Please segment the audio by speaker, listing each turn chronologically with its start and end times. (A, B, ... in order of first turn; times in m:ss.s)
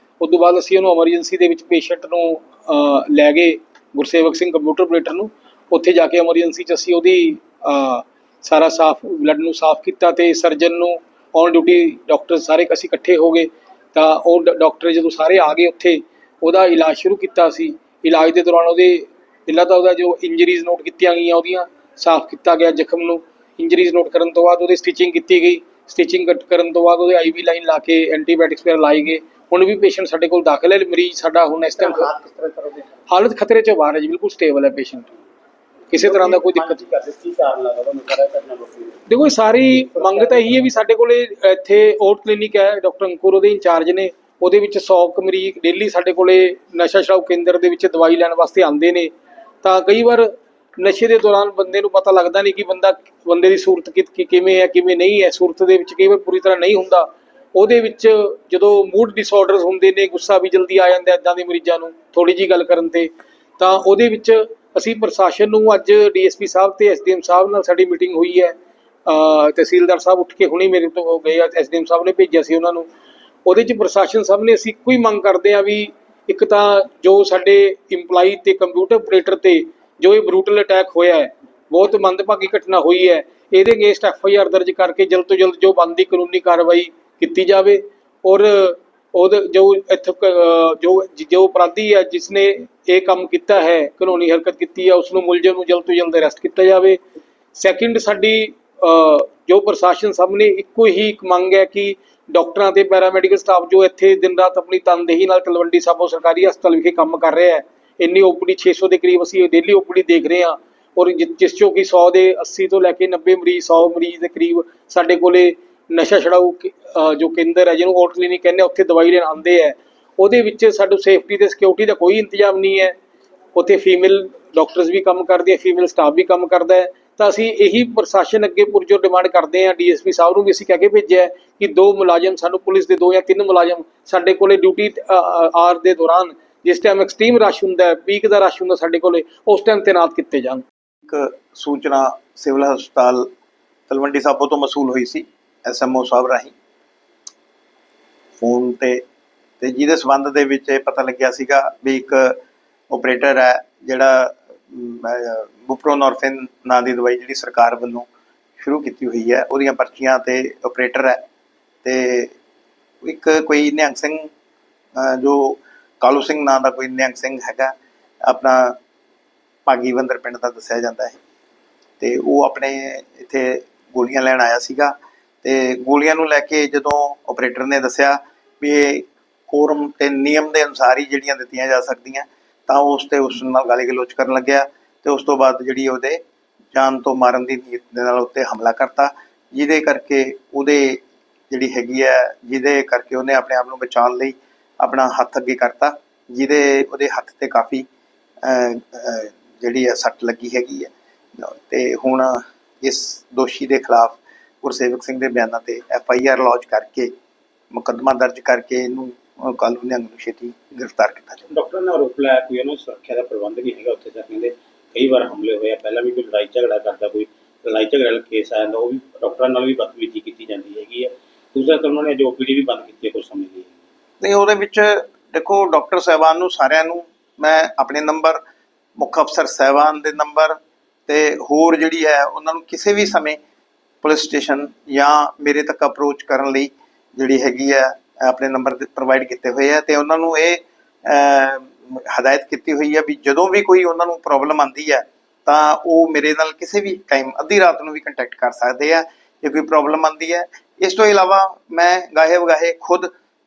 0:00.2-0:32.1 A
0:31.8-0:32.9 B
0:33.1-0:35.1 A
0:35.9-0:36.8 A
0:35.9-0:39.0 B
0:39.1-0:49.1 A
0:39.7-0:40.6 B
0:49.6-1:12.9 A
1:13.4-1:37.0 A
1:37.5-2:03.0 A
2:03.5-2:20.6 A
2:21.1-2:23.3 C
2:23.9-2:26.5 C
2:28.4-2:29.0 C
2:29.6-2:32.3 C
2:32.9-2:38.0 C
2:38.6-2:41.2 C
2:41.8-2:42.3 C
2:43.0-2:44.3 C
2:45.0-2:47.7 C
2:48.2-2:48.7 C
2:49.6-2:51.2 C
2:52.0-3:06.2 C
3:06.7-3:17.8 C
3:18.4-3:27.1 C
3:27.7-3:31.5 C
3:31.5-3:43.7 B
3:44.2-3:48.4 C
3:49.0-3:53.4 C
3:54.0-4:13.1 C